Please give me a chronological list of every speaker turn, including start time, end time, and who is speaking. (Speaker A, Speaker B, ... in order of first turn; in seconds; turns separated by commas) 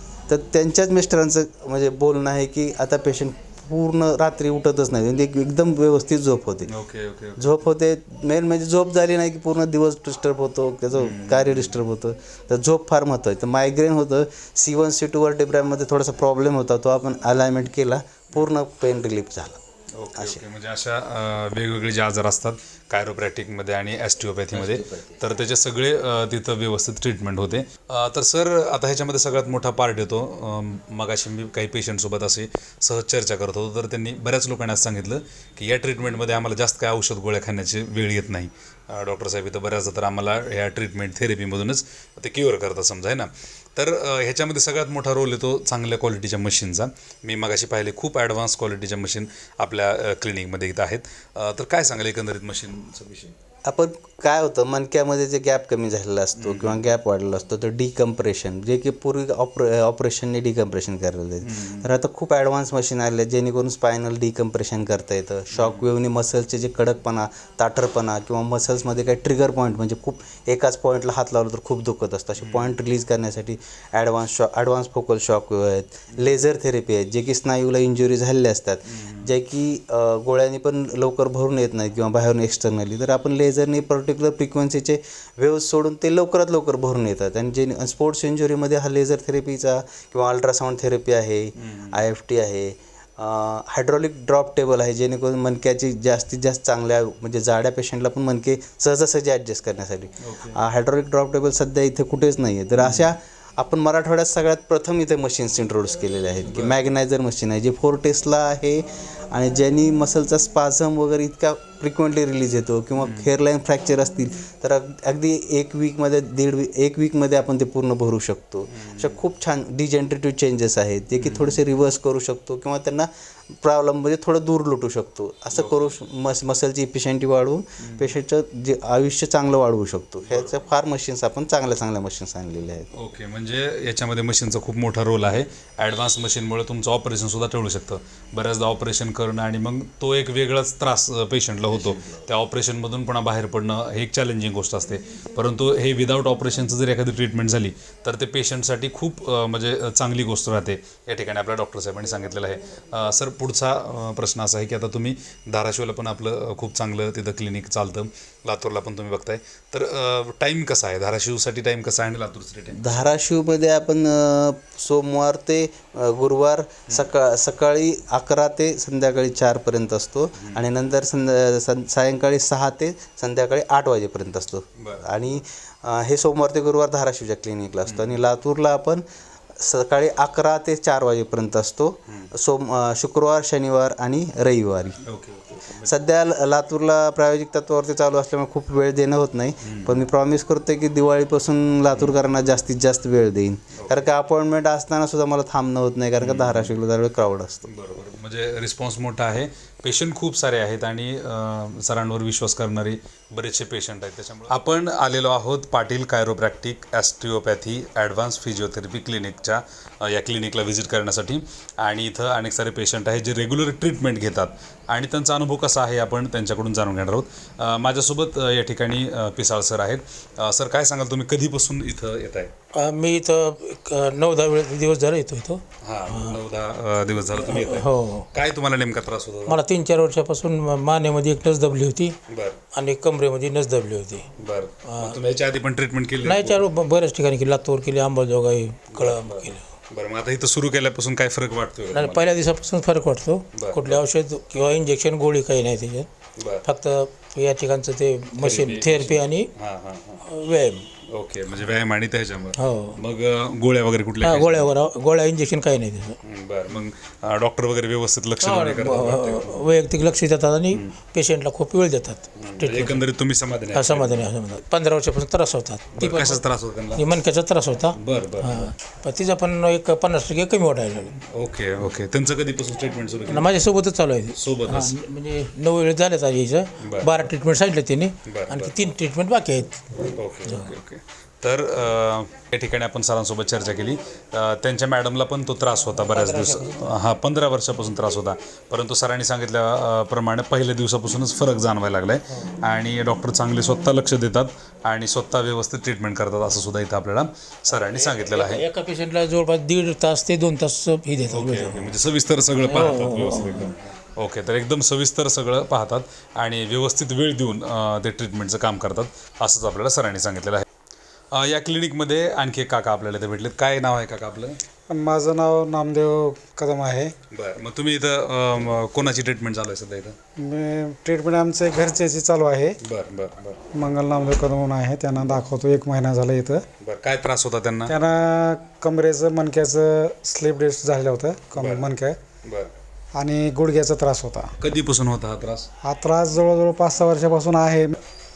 Speaker A: 0.3-6.7, Speaker B: 6.7-7.5, Speaker A: 7.4-19.6, Speaker B: 10.9-11.8, Speaker B: 20.0-53.4, Speaker A: 20.1-20.4, Speaker A: 53.7-132.9, Speaker B: 56.4-56.9, Speaker B: 61.4-61.9, Speaker B: 65.5-65.9, Speaker B: 72.4-72.8, Speaker B: 76.1-76.4, Speaker B: 78.9-79.4, Speaker B: 91.6-92.1, Speaker B: 100.2-100.6, Speaker B: 102.8-103.1, Speaker B: 106.5-106.9, Speaker B: 113.0-113.4, Speaker B: 118.7-119.2, Speaker B: 121.2-121.6, Speaker B: 125.5-126.0, Speaker B: 127.8-128.2, Speaker B: 130.2-130.6, Speaker B: 132.9-163.1, Speaker A: 162.7-179.0, Speaker B: 166.9-167.1, Speaker B: 170.4-170.7, Speaker B: 174.8-175.1, Speaker B: 177.8-178.2, Speaker A: 179.6-185.0, Speaker B: 182.1-182.3, Speaker B: 185.0-186.0, Speaker A: 185.8-197.7, Speaker B: 189.6-190.0, Speaker B: 193.7-194.1, Speaker B: 196.2-196.8, Speaker B: 197.7-222.5, Speaker C: 222.8-226.4, Speaker B: 225.8-229.6, Speaker C: 227.3-228.3, Speaker C: 229.5-232.2, Speaker B: 232.3-232.6, Speaker C: 232.7-234.3, Speaker B: 234.4-236.7, Speaker C: 234.9-235.2, Speaker C: 236.2-239.6, Speaker B: 238.9-242.3, Speaker C: 241.9-246.1, Speaker B: 243.5-244.0, Speaker B: 246.4-246.7, Speaker C: 246.6-249.5, Speaker B: 248.4-250.2, Speaker C: 250.3-250.9, Speaker B: 251.1-254.7, Speaker C: 252.6-253.0, Speaker C: 254.2-256.2, Speaker B: 256.2-259.6, Speaker C: 258.4-263.1, Speaker B: 262.4-264.3, Speaker C: 263.7-271.2, Speaker B: 265.9-267.1, Speaker B: 267.9-268.7, Speaker B: 271.3-273.6, Speaker C: 273.3-279.8, Speaker B: 274.4-275.0, Speaker B: 276.8-277.3, Speaker B: 278.3-278.9, Speaker B: 280.1-298.6, Speaker C: 286.1-286.9, Speaker C: 297.7-301.9, Speaker B: 301.3-310.7, Speaker C: 302.6-303.6, Speaker B: 311.3-314.6, Speaker D: 314.9-317.1, Speaker B: 317.3-320.2, Speaker D: 320.4-322.8, Speaker B: 322.8-323.7, Speaker D: 323.7-326.6, Speaker B: 325.2-325.4, Speaker B: 326.8-328.0, Speaker D: 327.9-332.2, Speaker B: 331.6-331.9, Speaker B: 332.4-332.7, Speaker D: 333.1-334.5, Speaker B: 334.6-335.7, Speaker D: 335.8-338.0